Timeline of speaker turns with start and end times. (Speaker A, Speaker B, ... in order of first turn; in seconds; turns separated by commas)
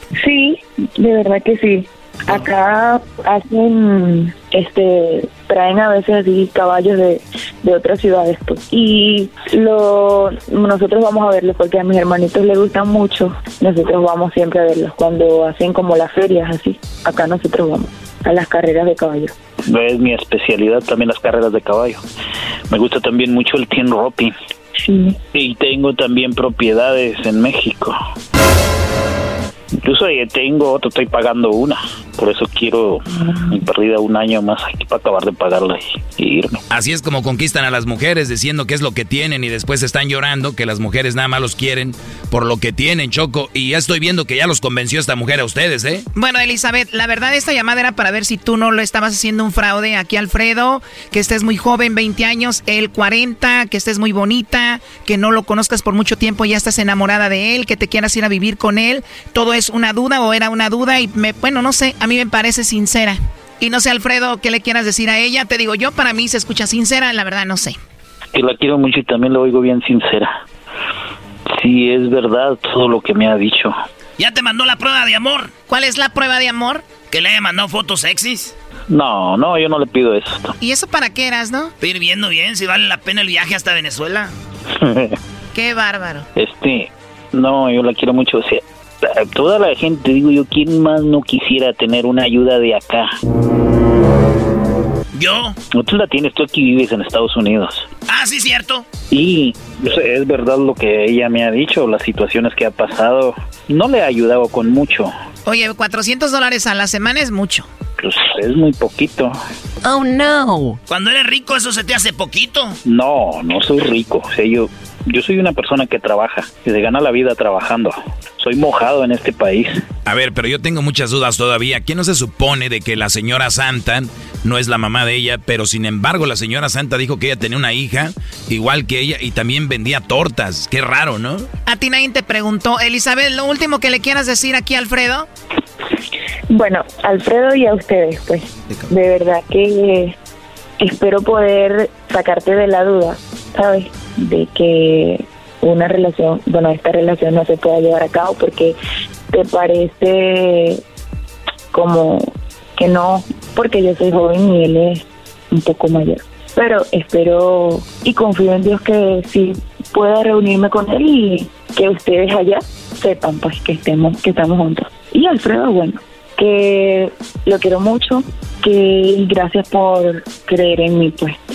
Speaker A: 0.2-19.3, Speaker B: 19.7-22.0, Speaker B: 22.7-24.4, Speaker A: 24.9-25.2, Speaker B: 25.3-28.0, Speaker B: 29.8-36.6, Speaker C: 36.7-46.1, Speaker D: 46.1-67.8, Speaker B: 68.3-70.4, Speaker B: 71.5-73.8, Speaker E: 74.2-75.5, Speaker D: 75.7-76.9, Speaker E: 77.1-78.5, Speaker B: 78.9-80.5, Speaker D: 80.6-81.7, Speaker E: 81.8-84.3, Speaker B: 84.7-85.2, Speaker D: 85.5-86.3, Speaker B: 86.4-93.2, Speaker E: 95.1-95.6, Speaker B: 95.7-97.9, Speaker E: 98.1-98.9, Speaker B: 99.1-105.1, Speaker D: 105.5-107.7, Speaker B: 108.0-109.4, Speaker E: 110.9-112.8, Speaker B: 112.8-119.8, Speaker C: 120.1-131.5, Speaker D: 131.7-135.3, Speaker A: 136.5-140.2, Speaker A: 140.8-148.8, Speaker A: 149.3-150.8, Speaker A: 151.7-171.4